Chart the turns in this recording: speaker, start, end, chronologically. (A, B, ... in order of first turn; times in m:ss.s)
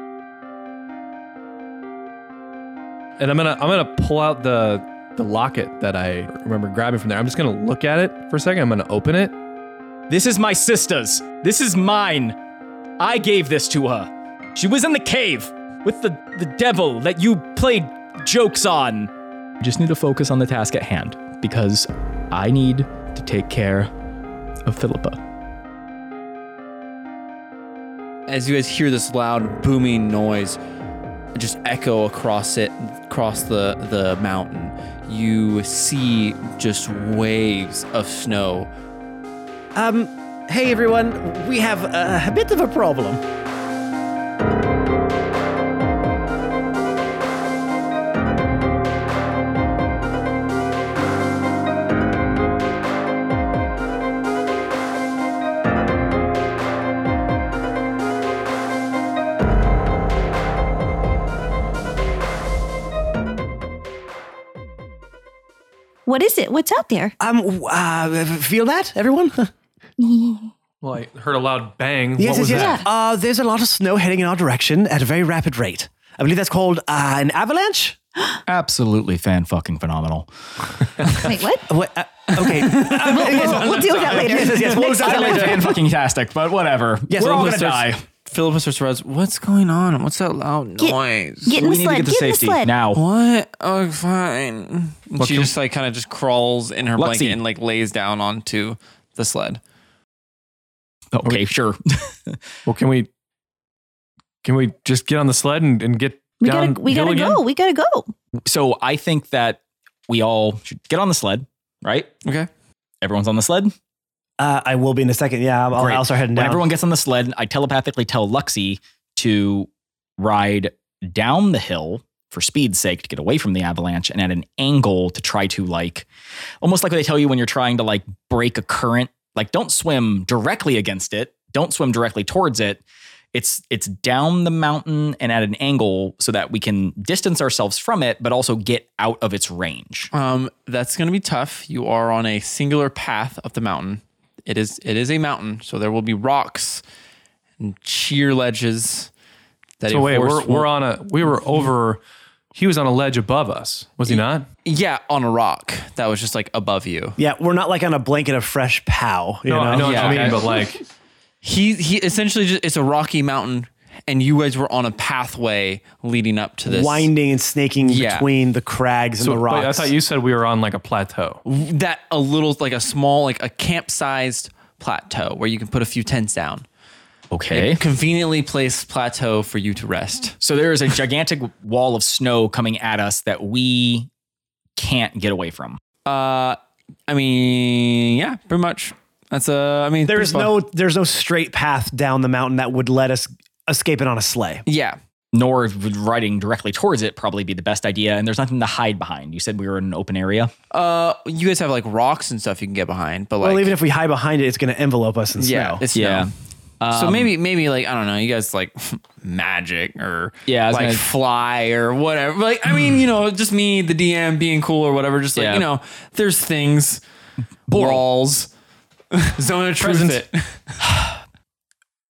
0:03.2-0:09.4 A
0:10.1-0:12.4 B
0:13.0-0:23.9 B
0:24.6-0:25.2 B
0:28.3-0:30.6 C
0:31.4-0:38.7 C
0:39.8-0:43.2 D
1:06.1-1:07.2 E
1:07.2-1:09.5 D
1:10.0-1:10.5 E
1:10.8-1:12.8 A
1:12.2-1:18.0 D
1:12.5-1:12.9 E
1:18.5-1:20.3 B
1:21.2-1:21.7 E
1:21.7-1:25.7 D
1:22.3-1:25.3 C
1:22.9-1:25.6 E
1:24.5-1:28.0 B
1:27.1-1:27.8 D
1:27.2-1:31.6 C
1:30.8-1:32.7 E
1:31.6-1:33.0 B
1:32.9-1:39.6 C
1:35.2-1:35.5 A
1:37.0-1:37.4 B
1:41.1-1:42.4 B
1:42.7-1:43.1 A
1:44.4-1:47.4 A
1:46.4-1:48.1 E
1:48.5-1:52.1 B
1:52.2-1:52.5 C
1:53.0-1:53.7 B
1:54.4-1:56.7 D
1:55.7-2:06.1 B
2:06.6-2:12.8 B
2:13.3-2:20.1 B
2:20.1-2:26.8 C
2:27.6-2:29.1 C
2:29.8-2:30.7 C
2:29.9-2:32.0 A
2:32.5-2:34.5 A
2:34.1-2:37.2 C
2:37.2-2:40.4 D
2:39.5-2:40.8 A
2:39.8-2:40.4 C
2:41.4-2:47.1 C
2:46.6-2:49.9 D
2:47.8-2:48.3 C
2:49.2-2:51.4 A
2:51.5-2:56.6 C
2:57.3-2:57.8 B
2:57.5-3:00.4 C
3:00.4-3:04.1 B
3:04.8-3:05.8 B
3:06.1-3:10.6 C
3:10.1-3:14.6 D
3:14.7-3:15.0 C
3:15.3-3:20.5 B
3:20.7-3:23.7 C
3:23.4-3:25.8 D
3:25.4-3:26.3 C
3:26.0-3:27.3 B
3:26.9-3:37.0 C
3:30.5-3:31.0 B
3:35.4-3:35.6 B
3:37.7-3:38.0 B
3:37.7-3:38.5 C
3:39.1-3:40.8 C
3:39.8-3:40.2 A
3:40.8-3:41.1 B